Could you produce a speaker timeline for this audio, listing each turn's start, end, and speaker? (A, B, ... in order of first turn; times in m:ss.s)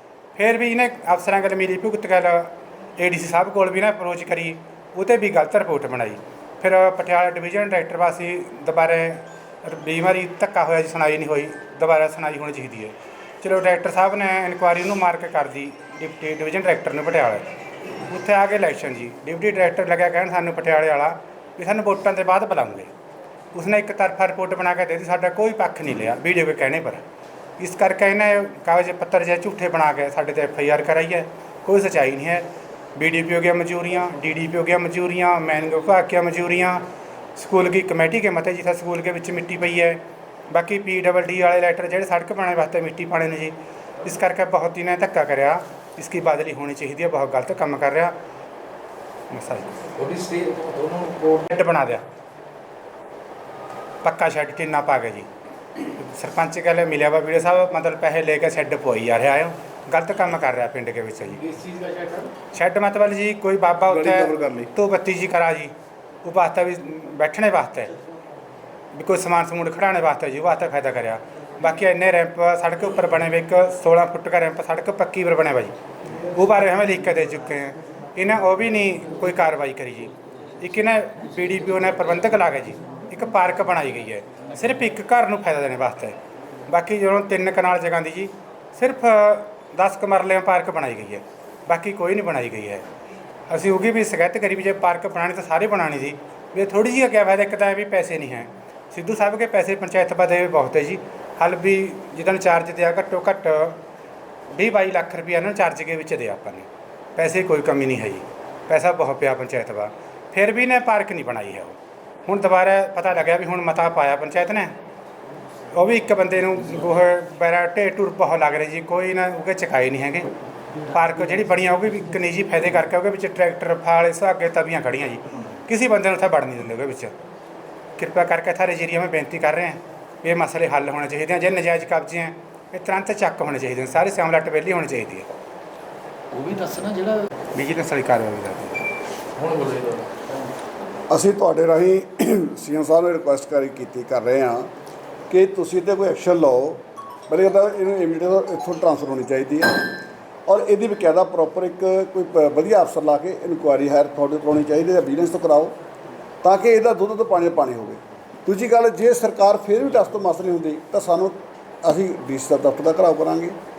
0:00.4-0:17.5 A
0:18.1-0:22.9 A
0:23.5-0:27.0 A
0:27.6-0:48.2 A
0:49.3-0:49.8 A
0:50.0-0:51.5 B
0:51.5-0:52.0 A
0:54.0-0:55.3 A
0:55.9-1:01.4 A
1:01.5-1:02.3 B
1:02.5-1:05.7 A
1:03.9-1:04.7 C
1:06.2-1:07.9 A
1:08.9-1:15.8 A
1:16.4-1:26.2 A
1:26.7-1:32.8 A
1:33.5-1:43.8 A
1:44.5-1:54.7 A
1:55.7-2:00.3 A
2:00.9-2:07.1 A
2:08.0-2:15.3 A
2:16.3-2:17.2 B
2:17.5-2:18.8 A
2:19.4-2:20.3 B
2:21.1-2:24.7 C
2:25.3-2:35.8 C
2:36.4-2:43.6 C